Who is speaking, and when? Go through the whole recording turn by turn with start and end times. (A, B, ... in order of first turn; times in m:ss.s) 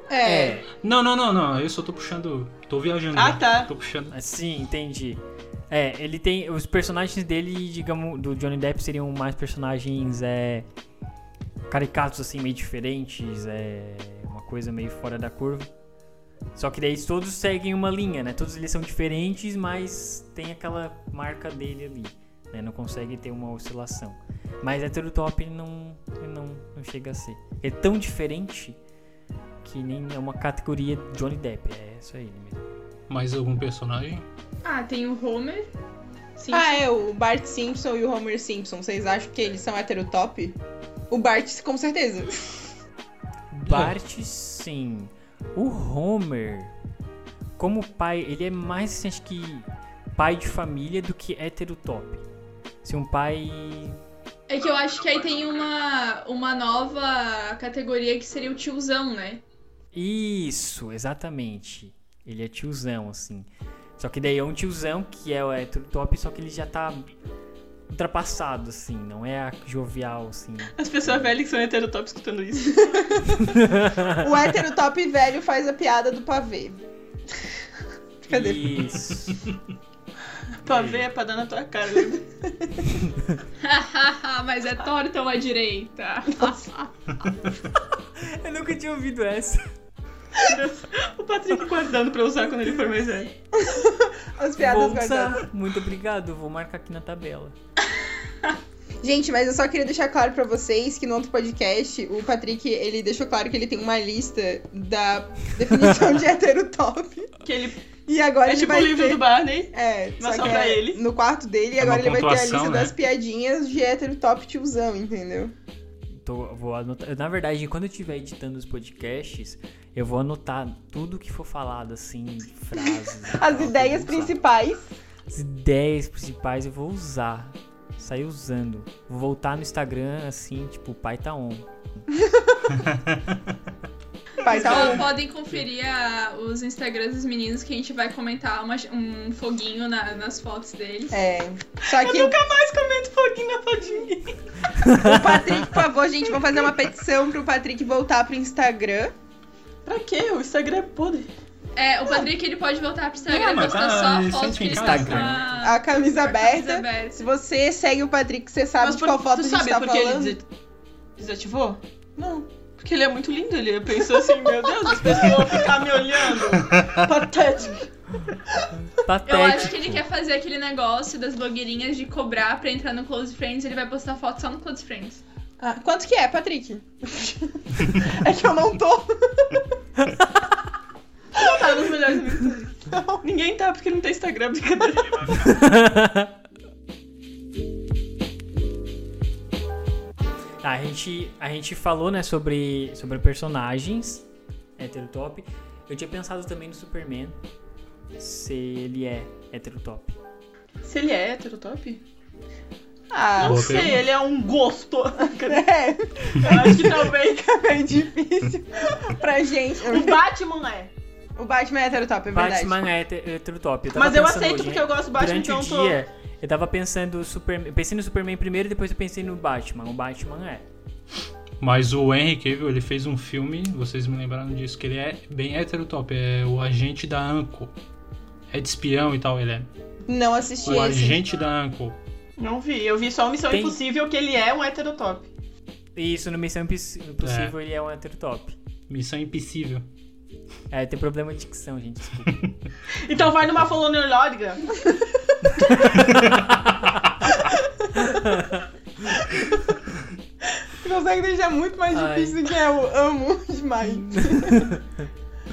0:00.1-0:00.6 A
0:00.2-0:00.7 B
0:00.8-0:04.1 C
0:03.1-0:03.7 D
0:04.1-0:10.7 B
0:11.7-0:15.7 B
0:16.6-0:28.8 B
0:29.6-0:32.6 B
0:33.1-0:34.2 C
0:34.6-0:35.7 E
0:36.4-0:36.8 E
0:36.5-0:40.6 A
0:41.1-0:42.6 A
0:43.5-0:46.7 B
0:43.7-0:44.0 C
0:47.6-0:52.2 B
0:52.8-0:54.0 B
0:54.5-0:59.4 E
0:59.9-1:07.1 B
1:07.9-1:11.3 B
1:10.8-1:13.2 D
1:13.4-1:14.2 B
1:14.1-1:16.8 A
1:18.3-1:18.8 A
1:18.3-1:19.5 B
1:20.6-1:22.2 D
1:20.7-1:21.0 B
1:22.6-1:22.8 A
1:23.0-1:23.4 B
1:23.6-1:26.9 E
1:28.0-1:29.7 B
1:30.4-1:33.3 D
1:33.5-1:35.4 A
1:34.6-1:37.6 B
1:39.0-1:47.3 A
1:47.4-1:47.8 D
1:48.1-1:55.5 A
1:48.5-1:51.0 D
1:51.8-1:53.0 C
1:56.2-2:04.4 B
2:03.2-2:04.9 A
2:05.3-2:11.7 B
2:12.1-2:12.7 A
2:12.8-2:13.4 C
2:14.4-2:15.1 A
2:14.4-2:21.2 E
2:14.5-2:15.0 D
2:21.1-2:22.4 A
2:21.9-2:24.4 D
2:24.8-2:25.4 B
2:25.0-2:29.1 A
2:29.8-2:31.3 D
2:31.8-2:37.3 E
2:33.3-2:35.4 C
2:34.7-2:35.5 B
2:35.6-2:40.4 A
2:38.8-2:40.5 D
2:41.2-2:41.8 D
2:42.2-2:42.5 A
2:42.8-2:47.9 D
2:46.6-2:47.0 C
2:49.0-2:50.0 B
2:49.3-2:55.2 E
2:55.6-2:59.6 A
3:01.3-3:05.5 D
3:01.4-3:01.8 A
3:02.9-3:03.2 A
3:05.3-3:06.3 B
3:10.6-3:14.2 B
3:14.8-3:17.4 B
3:18.2-3:20.2 B
3:20.8-3:22.0 D
3:23.1-3:23.9 A
3:23.4-3:25.6 D
3:23.4-3:24.1 C
3:25.4-3:30.2 A
3:26.4-3:27.4 D
3:29.8-3:30.9 D
3:31.4-3:32.8 A
3:32.3-3:40.7 B
3:33.9-3:36.0 D
3:41.6-3:47.7 C
3:48.5-3:49.7 C
3:50.1-3:51.2 A
3:50.6-3:52.0 C
3:52.4-3:55.3 D
3:53.5-3:53.8 B
3:56.0-3:58.6 B
3:57.2-3:57.6 C
3:58.9-3:59.8 C
4:00.7-4:02.4 B
4:02.3-4:02.5 C
4:02.9-4:04.7 D
4:05.4-4:07.0 B
4:06.0-4:06.4 C
4:08.0-4:09.2 B
4:10.6-4:14.7 A
4:11.9-4:12.4 B
4:13.9-4:15.1 B